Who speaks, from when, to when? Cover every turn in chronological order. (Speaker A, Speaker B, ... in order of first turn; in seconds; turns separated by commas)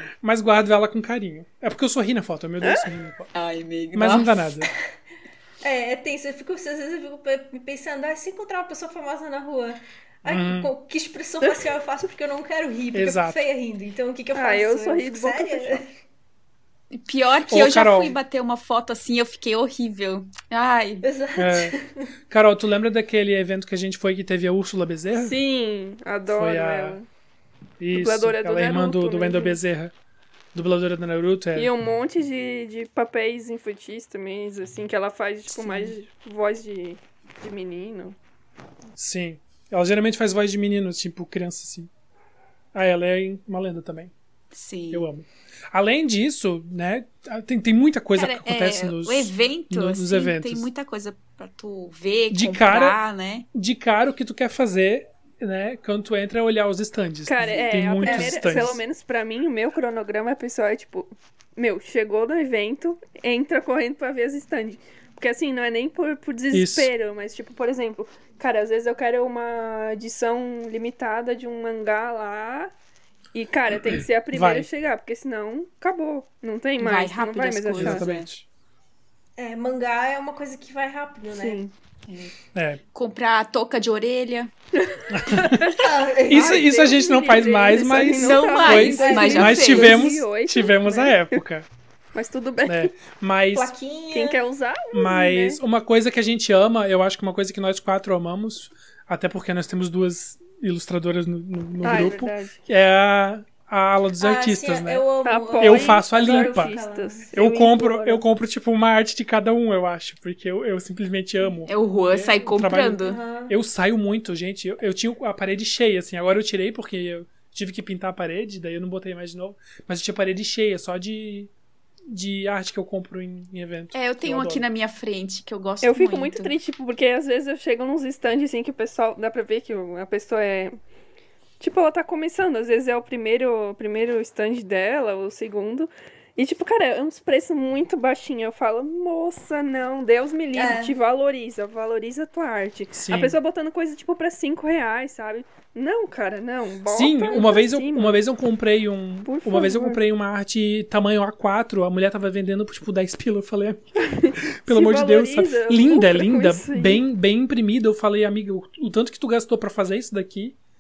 Speaker A: 0.2-3.3, Speaker B: 2.6-2.9, Speaker C: 3.3-4.5, Speaker A: 3.9-4.7, Speaker D: 5.6-15.9, Speaker A: 10.3-10.7, Speaker A: 12.9-13.4, Speaker B: 14.3-15.8, Speaker C: 16.9-21.1, Speaker A: 17.5-18.2, Speaker D: 21.0-22.1, Speaker A: 21.4-21.8, Speaker A: 22.3-25.4, Speaker B: 25.1-27.1, Speaker A: 26.3-27.0, Speaker A: 27.8-29.9, Speaker B: 27.9-29.6, Speaker A: 30.5-31.7, Speaker B: 31.6-38.2, Speaker C: 35.5-36.0, Speaker A: 39.0-41.9, Speaker A: 42.7-44.1, Speaker C: 44.5-45.1, Speaker A: 44.9-50.7, Speaker C: 48.1-53.5, Speaker A: 52.3-53.0, Speaker A: 53.5-58.8, Speaker B: 57.3-72.7, Speaker D: 58.0-58.8, Speaker A: 66.5-66.9, Speaker B: 73.3-78.0, Speaker A: 73.9-74.7, Speaker C: 76.8-78.3, Speaker A: 77.7-78.5, Speaker D: 79.4-81.6, Speaker B: 81.3-81.7, Speaker C: 82.1-82.3, Speaker A: 82.5-82.8, Speaker C: 82.9-84.5, Speaker B: 84.8-91.4, Speaker A: 85.1-85.7, Speaker D: 85.8-86.7, Speaker A: 86.3-91.7, Speaker C: 88.1-90.1, Speaker D: 89.0-89.6, Speaker B: 92.1-92.9, Speaker A: 92.7-93.7, Speaker D: 93.5-94.4, Speaker B: 94.1-95.6, Speaker A: 94.9-105.1, Speaker B: 101.8-102.6, Speaker D: 104.2-107.3, Speaker B: 105.2-108.2, Speaker A: 105.6-106.8, Speaker A: 107.3-121.5, Speaker C: 111.7-113.2, Speaker D: 113.0-113.5, Speaker A: 122.1-124.7, Speaker C: 123.9-126.5, Speaker B: 125.8-130.8, Speaker B: 131.6-148.2, Speaker D: 140.5-141.0, Speaker A: 142.9-143.4, Speaker A: 146.9-160.6, Speaker B: 149.2-150.0, Speaker B: 154.0-157.0